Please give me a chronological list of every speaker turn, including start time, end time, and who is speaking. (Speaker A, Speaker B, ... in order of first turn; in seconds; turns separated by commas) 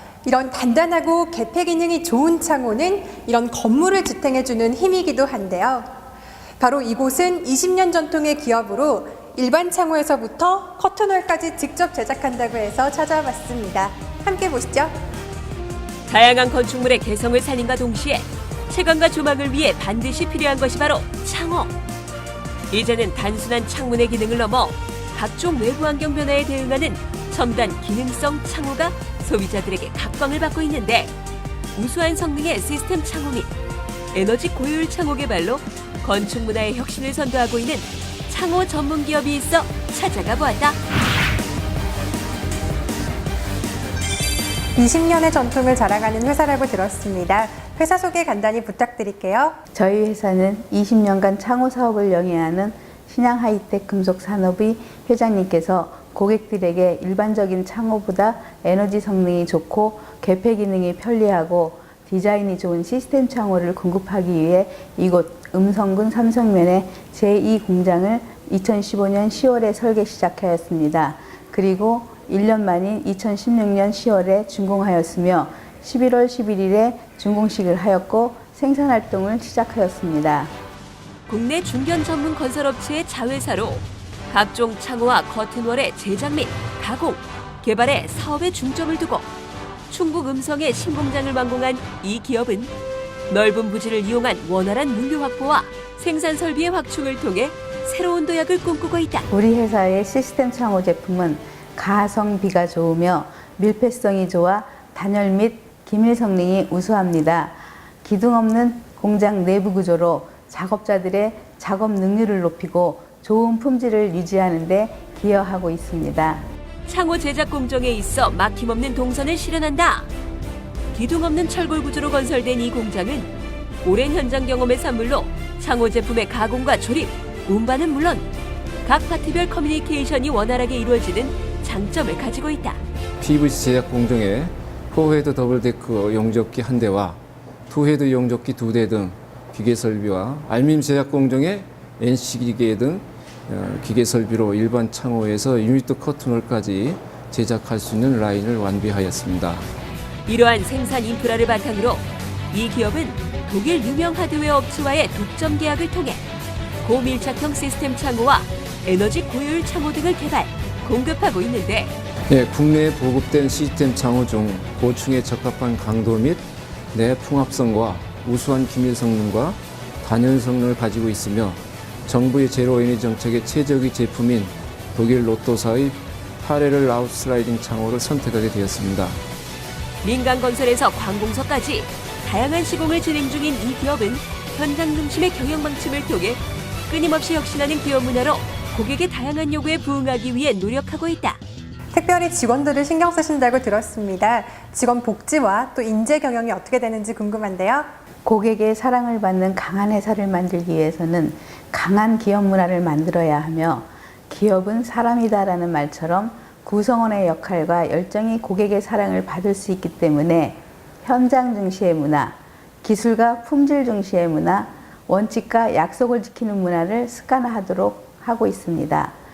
Speaker A: 0.2-5.9, Speaker A: 6.6-14.9, Speaker B: 16.1-21.7, Speaker B: 22.7-31.1, Speaker B: 31.8-33.5, Speaker B: 34.1-40.8, Speaker A: 44.8-49.6, Speaker C: 49.7-80.5, Speaker B: 81.3-89.3, Speaker B: 89.9-92.7, Speaker B: 93.3-99.3, Speaker C: 99.3-116.4, Speaker B: 116.9-120.1, Speaker B: 120.9-123.3, Speaker B: 123.8-128.3, Speaker B: 128.8-132.8, Speaker D: 133.2-149.7, Speaker B: 150.3-156.2, Speaker B: 156.8-161.9, Speaker D: 162.3-179.2, Speaker B: 180.0-191.4, Speaker A: 191.9-197.9, Speaker C: 198.2-219.2